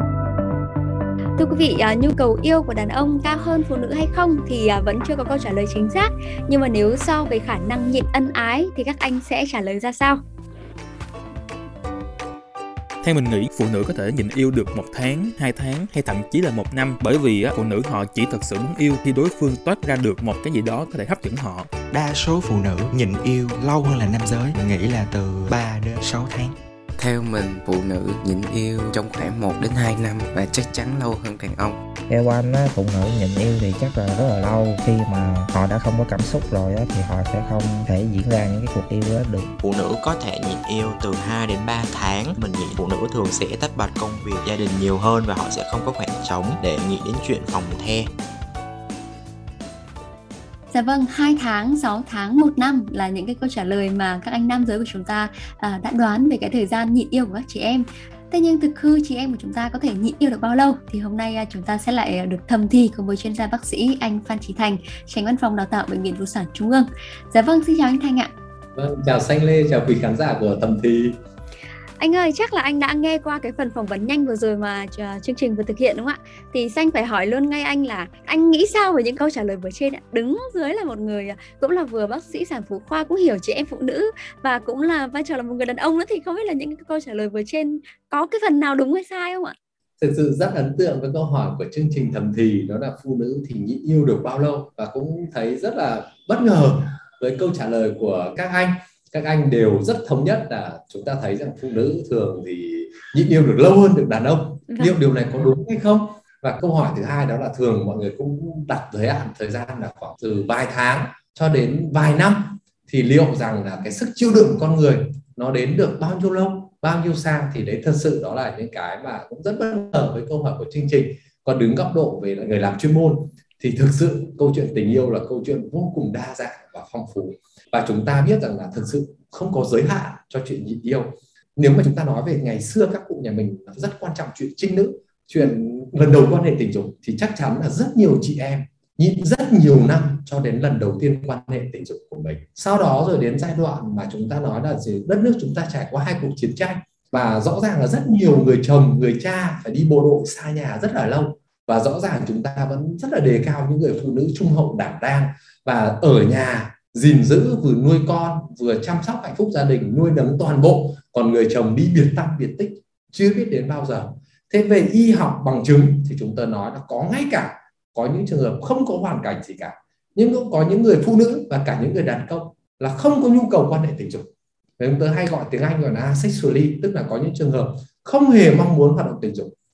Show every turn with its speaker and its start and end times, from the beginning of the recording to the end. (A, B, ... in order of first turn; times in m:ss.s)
0:01.4-0:10.2 A
0:13.0-0:21.7 B
0:21.9-0:26.5 C
0:27.0-0:31.8 D
0:32.1-0:39.5 E
0:39.6-0:48.1 F
0:50.7-1:08.3 A
1:08.7-1:11.2 G
1:12.0-1:29.5 A
1:30.0-2:54.3 G
1:44.7-1:45.0 A
2:54.8-2:59.5 G